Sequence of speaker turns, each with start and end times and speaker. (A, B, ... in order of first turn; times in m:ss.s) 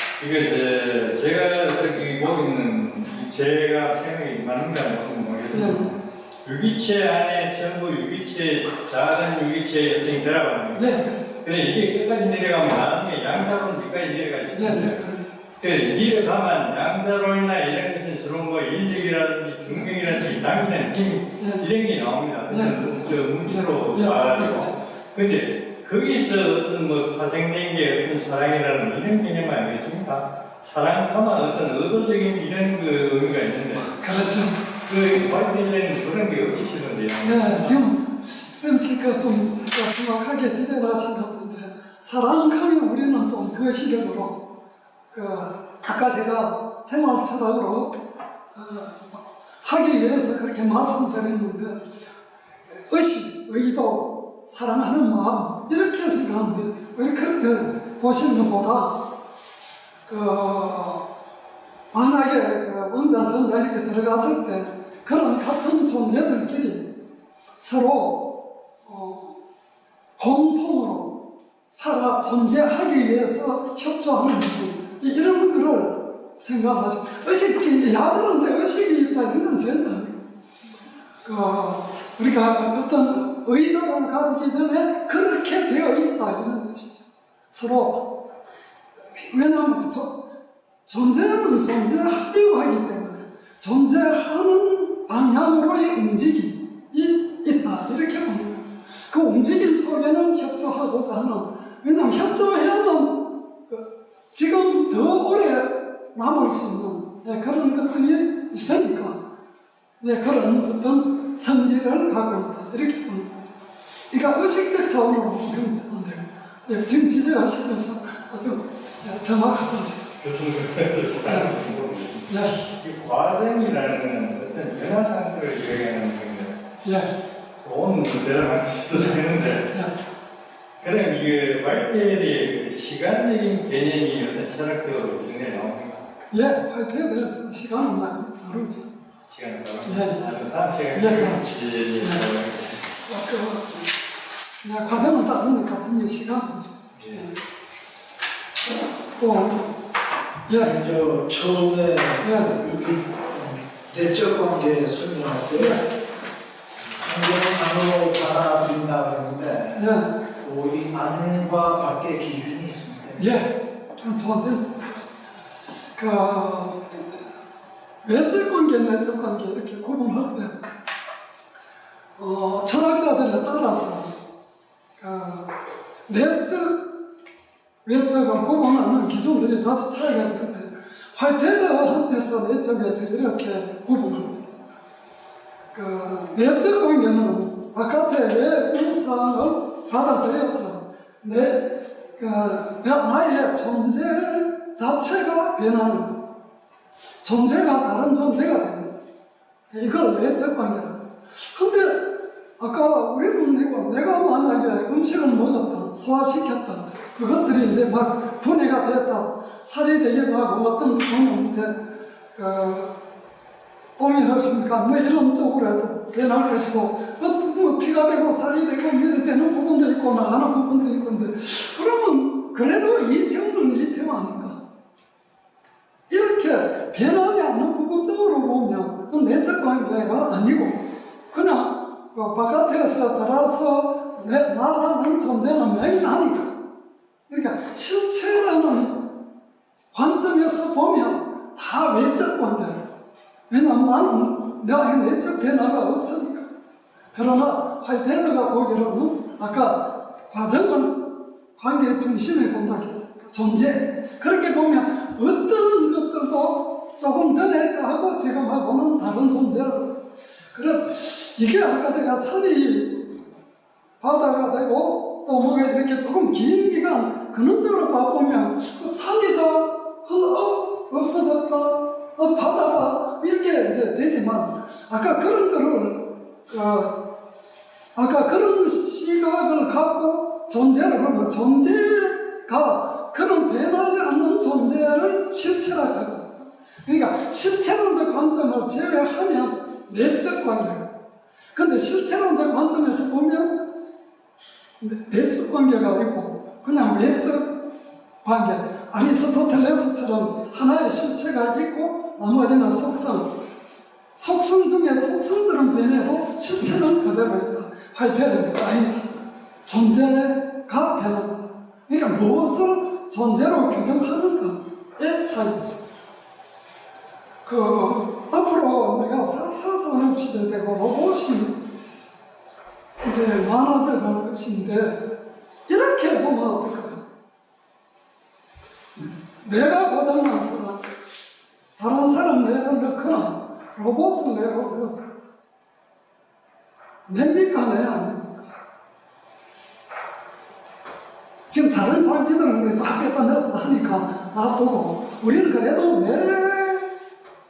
0:00.2-0:15.0 A
0:05.5-0:05.8 B
0:10.7-0:11.3 B
0:14.5-0:15.3 B
0:15.6-0:33.9 A
0:19.7-0:20.6 B
0:21.4-0:21.6 B
0:22.5-0:24.8 B
0:33.7-0:34.6 B
0:34.8-0:37.8 A
0:37.2-0:44.4 B
0:45.1-0:47.9 B
0:48.5-0:51.8 B
0:52.7-0:59.0 B
1:00.1-1:01.0 B
1:01.9-1:06.8 B
1:07.6-1:08.2 B
1:08.8-1:09.4 B
1:10.2-1:11.1 B
1:11.7-1:20.2 B
1:21.2-1:28.0 B
1:29.1-1:30.2 B
1:30.9-1:49.2 B
1:50.0-1:53.5 B
1:54.1-2:00.1 B
2:00.2-2:06.6 A
2:01.2-2:01.5 B
2:02.3-2:02.6 B
2:06.8-2:07.1 B
2:07.6-2:09.7 A
2:08.9-2:09.9 B
2:10.8-2:16.1 A
2:16.3-2:18.9 B
2:19.3-2:22.7 A
2:19.8-2:20.2 B
2:20.9-2:21.4 B
2:23.0-2:23.9 B
2:24.6-2:27.4 B
2:26.9-2:27.2 A
2:29.2-2:29.7 B
2:30.5-2:30.7 B
2:30.5-2:35.8 C
2:32.2-2:32.5 B
2:35.6-2:35.8 B
2:36.9-2:43.3 C
2:39.7-2:40.1 B
2:43.2-2:45.1 B
2:45.9-2:47.3 B
2:48.0-2:50.6 B
2:52.2-2:54.1 B
2:55.0-2:55.5 B
2:56.1-2:56.9 B
2:57.8-3:04.6 B
3:05.7-3:16.2 B
3:17.2-3:18.9 B
3:19.7-3:22.0 B
3:22.6-3:31.7 B
3:32.3-3:32.9 B
3:34.0-3:44.6 B
3:46.1-3:56.6 B
3:57.3-3:59.1 B
3:59.9-4:02.8 B
4:03.5-4:06.5 B
4:07.1-4:11.0 B
4:11.6-4:19.9 B
4:20.5-4:23.1 B
4:24.0-4:36.9 B
4:37.9-4:50.9 B
4:51.5-4:53.6 B
4:54.8-4:57.5 B
4:58.2-5:09.1 B
5:09.6-5:15.8 B
5:17.4-5:21.6 B
5:23.0-5:25.0 B
5:25.7-5:27.0 B
5:29.0-5:30.8 B
5:31.8-5:35.1 B
5:37.1-5:38.5 B
5:41.5-5:46.8 B